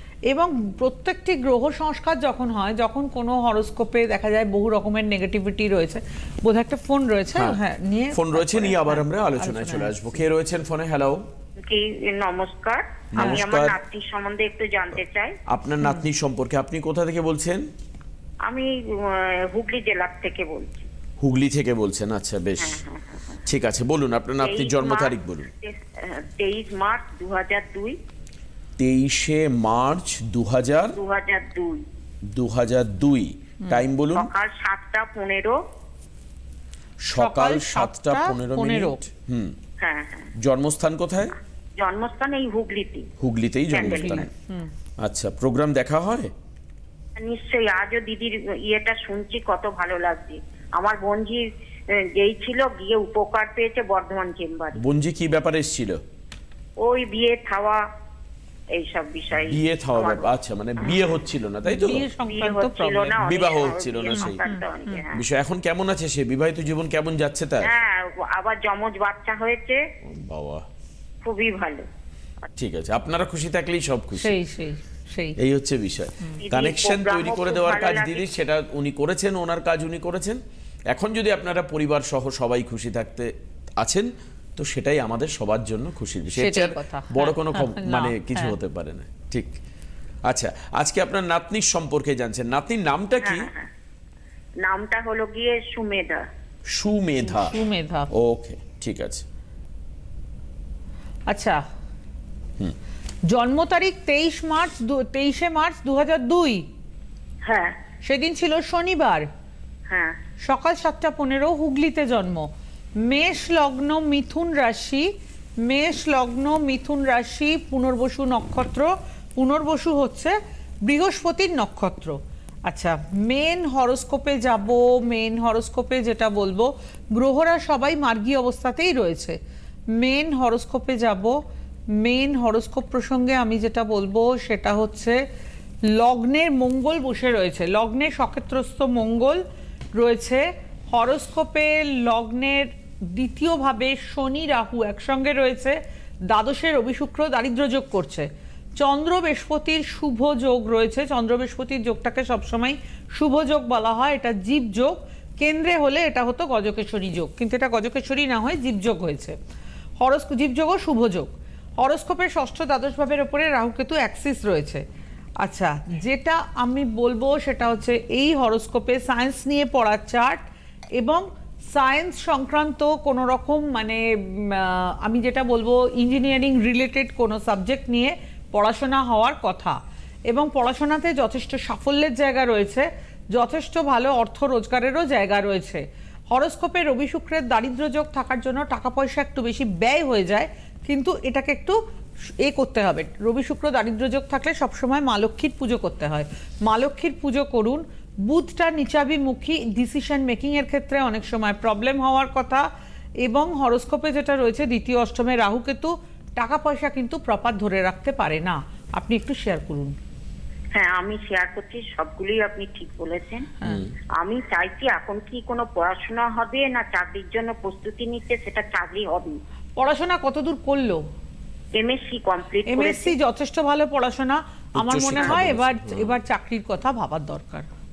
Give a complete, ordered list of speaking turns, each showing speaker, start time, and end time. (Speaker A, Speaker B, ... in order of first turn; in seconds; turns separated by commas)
Speaker A: 0.3-9.9, Speaker B: 8.1-11.2, Speaker C: 11.6-15.4, Speaker B: 13.2-13.8, Speaker B: 15.5-17.6, Speaker C: 18.5-20.9, Speaker B: 21.2-22.8, Speaker C: 22.6-23.4, Speaker B: 23.5-25.5, Speaker C: 24.4-28.0, Speaker B: 28.8-31.0, Speaker C: 31.0-31.8, Speaker B: 32.3-34.3, Speaker C: 34.1-35.6, Speaker B: 37.0-39.6, Speaker A: 37.2-39.0, Speaker C: 39.8-40.3, Speaker B: 40.4-41.4, Speaker C: 41.8-43.1, Speaker B: 43.2-44.3, Speaker C: 43.7-44.3, Speaker A: 44.0-44.7, Speaker B: 45.0-46.3, Speaker C: 47.2-54.8, Speaker B: 54.8-56.0, Speaker C: 56.8-57.9, Speaker C: 58.7-61.1, Speaker B: 59.3-62.0, Speaker A: 61.7-63.2, Speaker C: 62.3-65.2, Speaker B: 63.2-64.4, Speaker A: 64.2-65.0, Speaker B: 65.1-67.7, Speaker C: 67.6-69.8, Speaker B: 70.0-70.7, Speaker C: 71.2-71.9, Speaker B: 72.6-74.4, Speaker A: 74.2-75.4, Speaker B: 75.4-89.5, Speaker C: 76.4-78.3, Speaker A: 86.3-88.5, Speaker B: 90.3-93.5, Speaker C: 93.2-93.7, Speaker C: 94.6-96.3, Speaker B: 96.7-97.6, Speaker A: 97.2-98.1, Speaker B: 98.1-99.2, Speaker A: 101.3-101.6, Speaker A: 103.3-106.7, Speaker C: 107.5-107.8, Speaker A: 108.0-109.3, Speaker C: 109.9-110.2, Speaker A: 110.5-112.5, Speaker A: 113.0-115.1, Speaker A: 115.6-129.4, Speaker A: 129.9-131.4, Speaker A: 132.0-135.2, Speaker A: 135.9-139.4, Speaker A: 139.9-159.4, Speaker A: 160.0-164.8, Speaker A: 165.4-170.4, Speaker A: 171.0-191.8, Speaker A: 192.4-202.7, Speaker A: 203.2-210.0, Speaker C: 210.7-213.5, Speaker B: 213.7-213.9, Speaker C: 214.2-219.4, Speaker A: 219.8-221.0, Speaker C: 221.8-223.2, Speaker A: 222.7-227.7, Speaker B: 224.8-226.1